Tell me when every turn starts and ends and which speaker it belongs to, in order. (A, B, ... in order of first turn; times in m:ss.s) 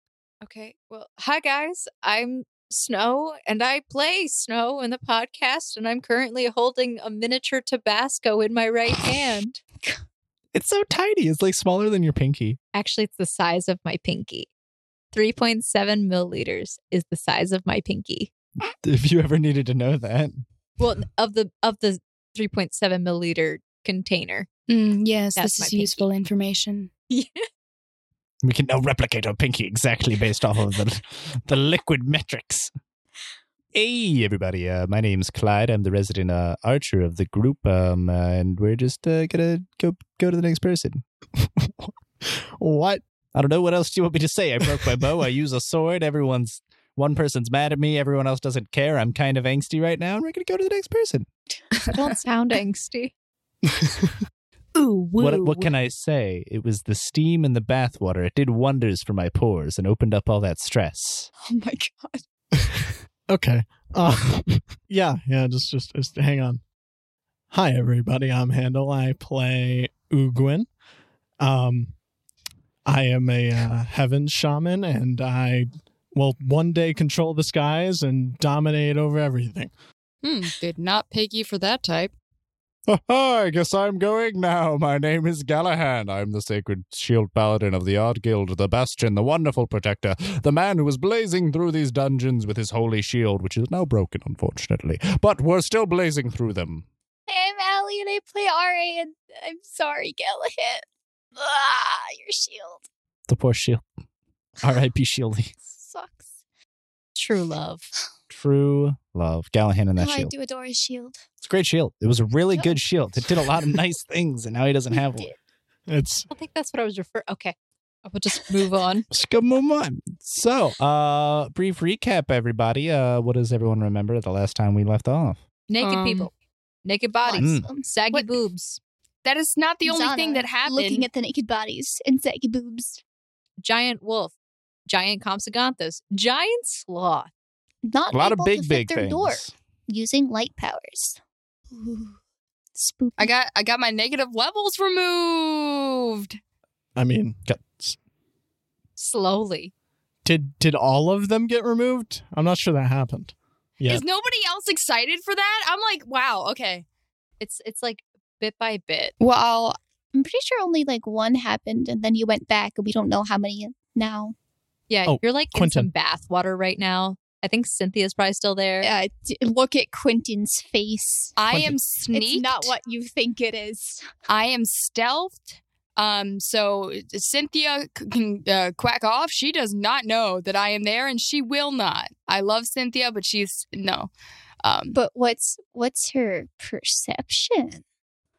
0:00.4-0:09.6 A
0:10.5-0:12.6 B
0:12.7-0:14.5 A
0:15.1-0:18.3 A
0:18.8-0:20.4 B
0:20.8-0:24.5 A
0:24.7-0:26.9 C
0:25.4-0:26.0 A
0:27.1-0:27.4 A
0:28.4-0:32.7 B
0:33.7-0:41.0 B
0:42.6-0:43.0 D
0:43.3-0:51.3 B
0:51.9-0:53.1 A
0:53.7-0:54.1 D
0:54.7-0:55.7 A
0:55.2-1:01.3 B
1:01.4-1:02.2 E
1:03.3-1:06.6 D
1:07.5-1:10.7 D
1:11.4-1:11.9 D
1:12.8-1:19.7 D
1:20.2-1:22.1 C
1:22.9-1:36.8 B
1:37.3-1:42.8 E
1:43.3-1:43.8 B
1:44.6-1:45.5 B
1:45.6-1:46.3 E
1:47.1-1:47.9 A
1:48.3-1:50.3 B
1:50.0-1:51.2 E
1:51.4-1:55.3 B
1:54.9-1:55.4 E
1:55.9-1:56.3 D
1:56.3-1:59.0 A
1:59.1-2:05.4 B
2:05.7-2:06.3 A
2:05.8-2:06.3 C
2:06.8-2:08.8 A
2:07.2-2:07.9 E
2:07.4-2:07.6 B
2:09.2-2:11.1 C
2:09.8-2:13.0 E
2:13.6-2:14.3 A
2:14.9-2:17.3 A
2:17.8-2:21.2 E
2:18.1-2:19.5 B
2:21.7-2:22.2 E
2:22.7-2:23.3 E
2:23.2-2:26.4 C
2:27.0-2:28.0 D
2:29.0-2:29.7 A
2:30.2-2:34.0 D
2:33.8-2:36.8 C
2:37.4-2:39.1 A
2:39.2-2:39.8 C
2:40.1-2:44.3 E
2:44.9-2:48.9 A
2:45.0-2:45.9 D
2:48.8-2:51.4 E
2:51.4-2:52.7 C
2:51.5-2:51.8 D
2:52.1-2:54.1 E
2:54.3-3:04.1 C
3:04.6-3:05.0 C
3:04.9-3:07.8 E